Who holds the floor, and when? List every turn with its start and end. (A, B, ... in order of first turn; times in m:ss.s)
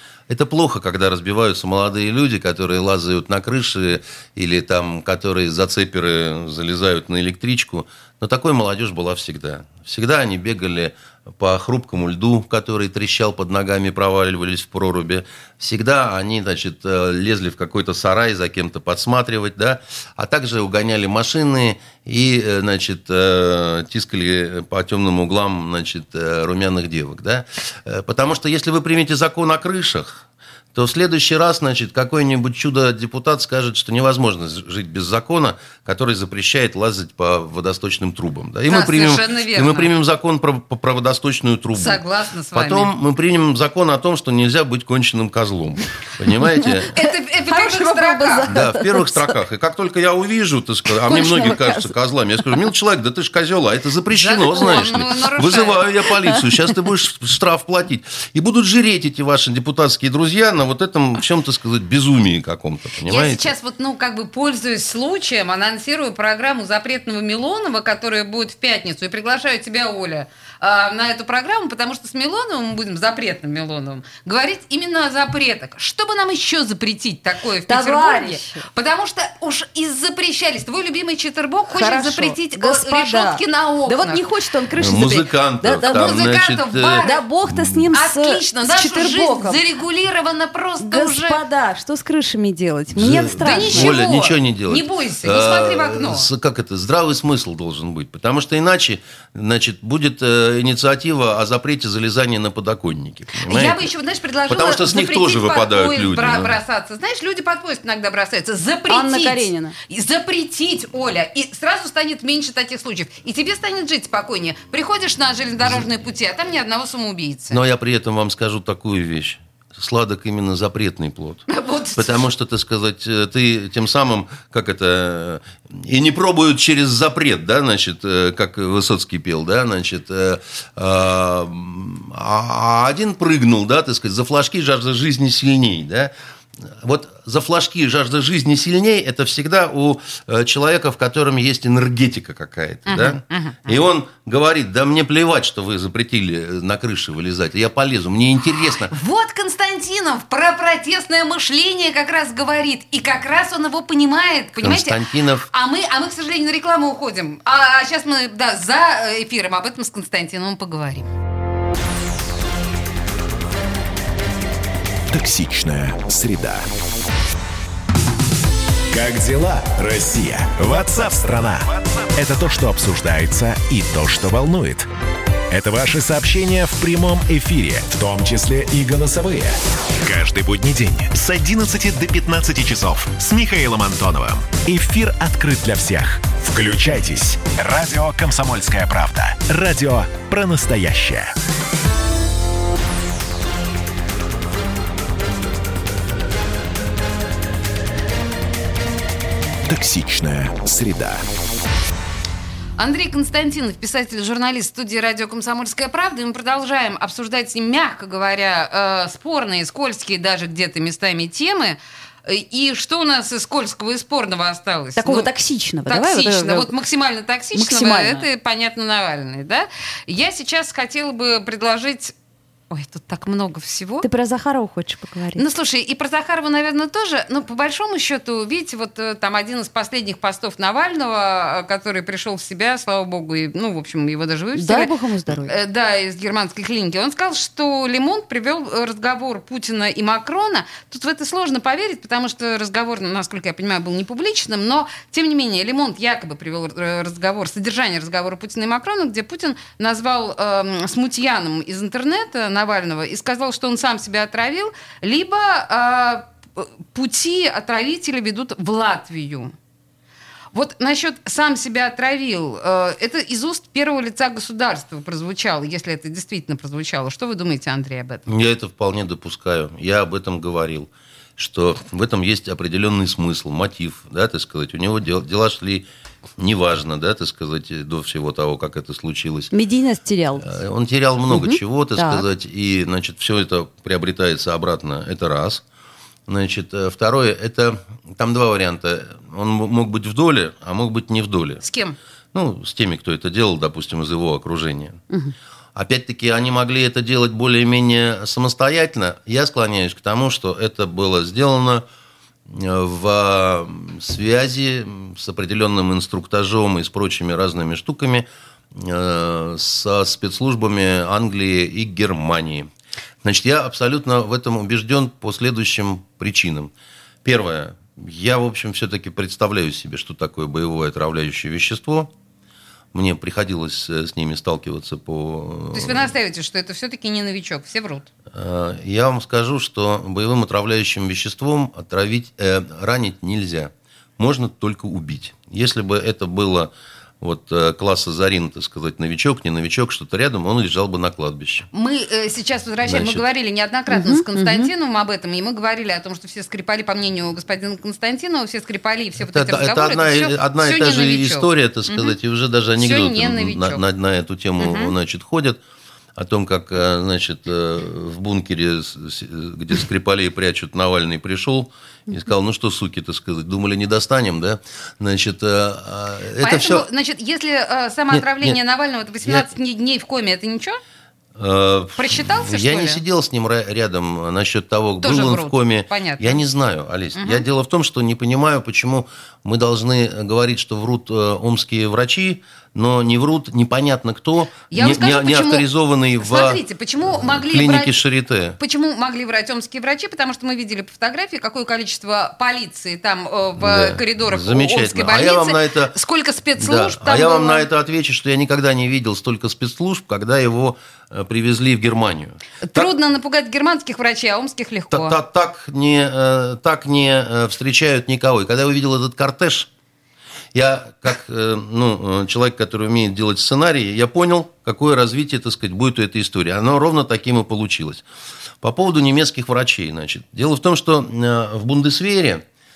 0:00.3-0:42.0 A
0:38.7-0:39.9 B
0:41.7-0:42.9 B
0:42.5-0:46.9 A
0:46.9-0:49.4 C
0:46.9-0:48.5 B
0:48.5-1:03.5 A
0:51.0-0:51.9 C
0:54.1-0:55.8 B
1:03.0-1:24.2 B
1:17.7-1:18.6 C
1:21.7-1:26.2 C
1:24.7-1:27.8 A
1:25.8-1:27.2 B
1:27.0-1:29.6 C
1:27.9-1:31.4 B
1:30.8-1:34.0 C
1:32.9-1:43.9 A
1:33.4-1:36.3 B
1:43.4-1:57.6 B
1:44.5-1:46.6 A
1:48.9-1:49.7 C
1:57.5-2:01.4 A
2:01.5-2:02.3 B
2:02.0-2:16.1 A
2:16.6-2:28.9 A
2:22.9-2:23.8 B
2:28.9-2:41.1 B
2:34.6-2:35.4 A
2:45.1-2:46.7 D
2:48.9-2:54.9 D
2:55.5-3:11.3 D
3:19.7-3:21.3 D
3:22.8-3:35.3 B
3:35.0-3:36.7 C
3:35.8-3:42.1 B
3:37.5-3:38.2 C
3:42.7-3:44.0 B
3:44.0-3:45.4 C
3:45.4-3:54.9 B
3:54.5-3:55.5 C
3:55.4-4:19.5 B
4:20.5-4:28.2 B
4:28.3-4:35.9 A
4:36.4-4:39.5 A
4:39.5-4:40.5 C
4:40.4-4:45.6 A
4:41.3-4:42.2 C
4:46.3-4:51.6 A
4:51.6-4:52.0 B
4:52.3-4:55.0 A
4:55.8-5:01.8 A
5:02.5-5:12.7 A
5:13.2-5:16.7 A
5:17.2-5:22.1 A
5:22.9-5:26.1 A
5:25.7-5:28.1 B
5:28.3-5:41.7 A
5:41.7-5:52.2 B
5:42.8-5:43.2 A
5:43.9-5:44.7 C
5:49.2-5:55.6 A
5:52.8-5:53.8 B
5:54.6-5:54.9 B
5:56.2-6:06.8 A
6:06.4-6:10.8 B
6:08.1-6:08.6 A
6:11.4-6:28.6 A
6:12.0-6:13.0 B
6:15.0-6:16.4 B
6:17.2-6:17.4 B
6:24.7-6:25.6 B
6:26.2-6:28.0 B
6:28.6-6:37.7 B
6:33.6-6:35.9 A
6:36.6-6:42.9 A
6:42.6-6:45.2 B
6:44.9-6:49.7 A
6:50.5-6:58.0 A
6:58.6-7:02.4 A